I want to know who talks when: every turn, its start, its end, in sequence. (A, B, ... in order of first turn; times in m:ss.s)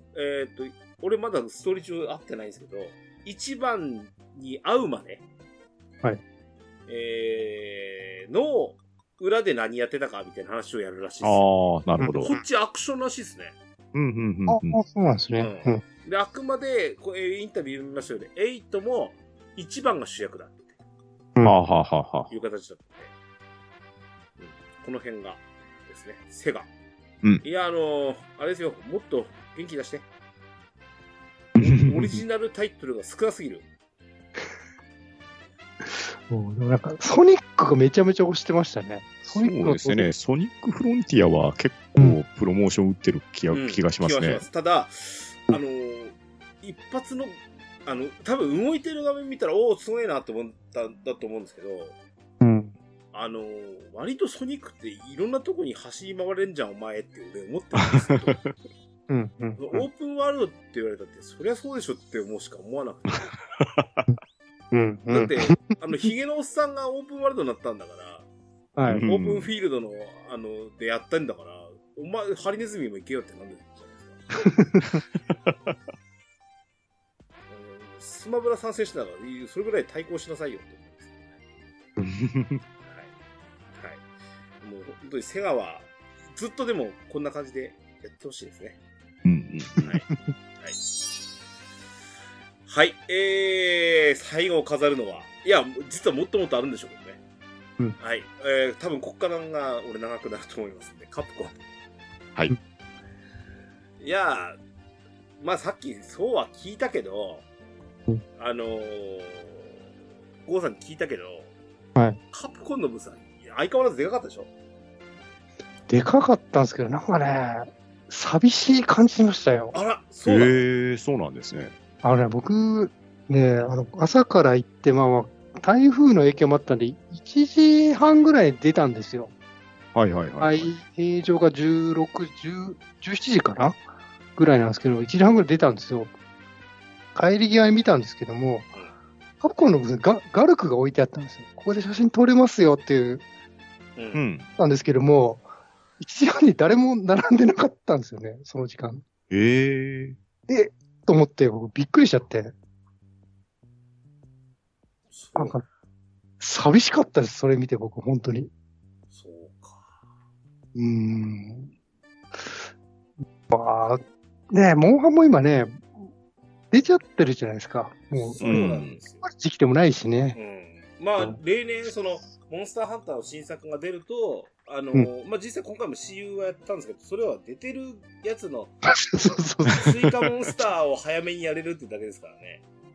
0:00.1-0:05.2 A
0:06.9-0:11.4 A
0:11.2-0:12.3 B
0:12.0-0:12.4 C
0:12.1-0:13.6 A
0:13.9-0:14.8 B
0:14.5-0:15.8 C
0:15.4-0:20.8 A
0:21.4-0:22.3 B
0:22.3-0:23.1 A
0:24.4-0:26.7 A
0:27.4-0:30.0 A
0:31.6-0:32.2 B
0:31.6-0:33.7 A
0:35.8-0:40.1 C
0:39.3-0:44.4 B
0:43.5-0:51.9 A
0:52.4-0:52.7 C
0:53.1-0:58.4 A
0:59.1-0:59.8 C
0:59.6-1:03.3 A
1:03.8-1:04.0 B
1:04.7-1:05.6 C
1:05.1-1:08.2 A
1:08.8-1:09.0 C
1:08.9-1:09.5 B
1:09.0-1:14.2 A
1:14.5-1:15.0 C
1:17.5-1:21.4 A
1:22.0-1:22.6 B
1:22.8-1:23.1 A
1:23.8-1:24.0 A
1:24.6-1:28.8 A
1:29.2-1:29.9 B
1:32.6-1:37.2 A
1:38.0-1:41.5 A
1:44.0-1:44.6 A
1:45.4-1:47.4 A
1:48.4-1:49.7 A
1:50.4-1:51.5 A
1:52.3-1:54.5 A
1:55.9-1:59.8 C
1:59.7-2:00.6 A
2:00.2-2:01.7 B
2:02.0-2:09.3 C
2:09.9-2:10.7 B
2:10.4-2:13.8 C
2:14.4-2:16.1 C
2:17.1-2:18.7 C
2:19.4-2:23.2 C
2:24.0-2:24.2 A
2:24.1-2:24.5 B
2:24.6-2:25.5 C
2:26.0-2:29.0 C
2:29.3-2:30.2 B
2:30.5-2:32.5 C
2:35.1-2:35.6 A
2:35.4-2:35.6 C
2:36.4-2:38.5 C
2:39.1-2:39.9 A
2:40.7-2:41.7 C
2:43.5-2:45.9 C
2:46.7-2:50.4 C
2:48.1-2:49.2 A
2:48.4-2:49.0 B
2:50.3-2:58.7 A
2:58.9-2:59.9 C
2:59.7-3:02.6 A